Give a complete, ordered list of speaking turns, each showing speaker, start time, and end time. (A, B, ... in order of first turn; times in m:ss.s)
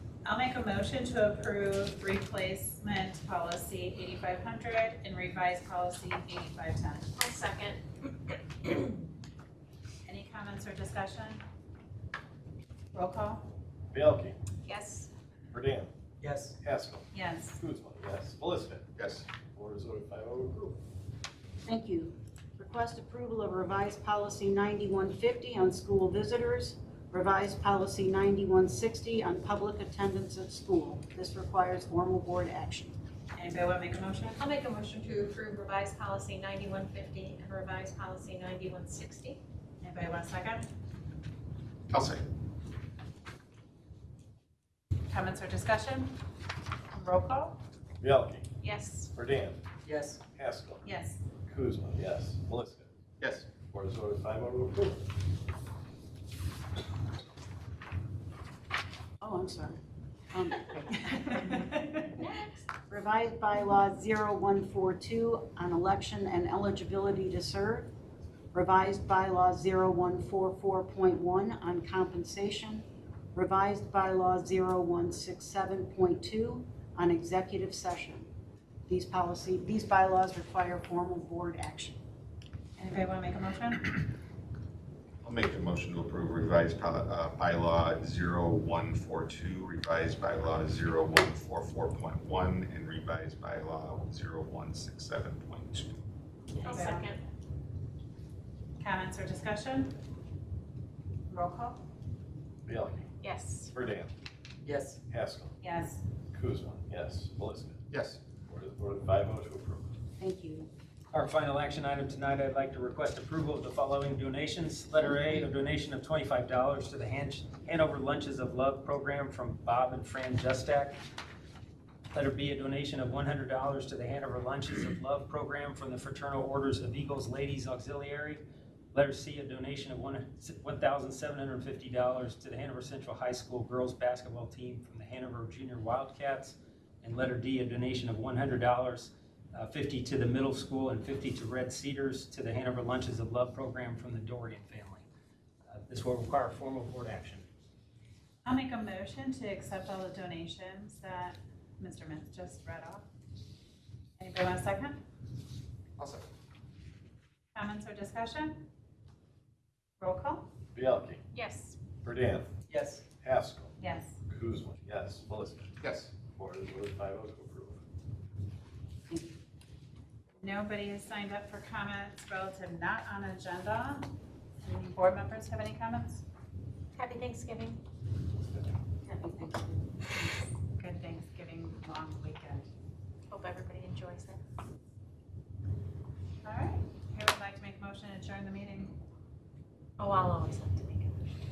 0:00.2-0:07.1 A
0:07.2-0:07.9 B
0:10.0-0:11.4 A
0:12.9-0:13.4 A
0:13.9-0:14.4 C
0:14.6-0:15.1 B
0:15.5-0:15.9 C
0:16.2-0:16.5 D
0:16.7-0:17.0 C
0:17.1-0:17.6 A
0:17.6-0:18.9 C
0:19.0-0:19.2 E
0:19.5-0:20.8 C
0:21.6-0:33.0 F
0:33.3-0:34.4 A
0:34.4-0:39.4 B
0:39.8-0:40.7 A
0:41.9-0:42.2 E
0:45.1-0:46.2 A
0:46.9-0:47.6 A
0:48.0-0:48.5 C
0:48.6-0:49.1 B
0:49.3-0:49.6 C
0:49.8-0:50.2 D
0:50.3-0:50.8 C
0:50.8-0:51.2 A
0:51.4-0:52.9 C
0:53.2-0:53.4 E
0:53.6-0:55.1 C
0:59.2-0:59.8 F
1:00.3-1:01.6 F
1:01.1-1:02.0 A
1:02.9-1:07.9 F
1:08.5-1:18.3 F
1:18.9-1:22.0 F
1:22.8-1:24.0 A
1:25.2-1:36.0 E
1:36.6-1:37.2 B
1:36.6-1:37.1 A
1:38.8-1:40.0 A
1:41.3-1:41.8 A
1:42.8-1:43.1 C
1:43.2-1:43.7 B
1:44.6-1:45.0 D
1:45.6-1:46.0 A
1:46.3-1:47.8 C
1:47.9-1:48.2 E
1:48.5-1:49.9 C
1:50.2-1:50.7 F
1:51.1-2:01.0 D
2:02.1-2:25.0 D
2:25.7-2:27.4 D
2:28.4-2:33.0 A
2:34.2-2:35.0 A
2:36.0-2:36.2 E
2:37.5-2:38.6 A
2:40.0-2:40.5 A
2:40.8-2:41.2 C
2:41.3-2:41.8 B
2:42.0-2:42.5 C
2:42.7-2:43.0 D
2:43.2-2:43.7 C
2:43.8-2:44.2 A
2:44.3-2:45.7 C
2:45.8-2:46.1 E
2:46.3-2:47.8 C
2:50.4-2:54.1 A
2:54.6-2:56.2 A
2:57.0-2:57.8 B
2:59.1-2:59.6 B
3:00.8-3:02.7 A
3:03.3-3:04.4 B
3:06.4-3:09.0 A
3:10.0-3:11.4 B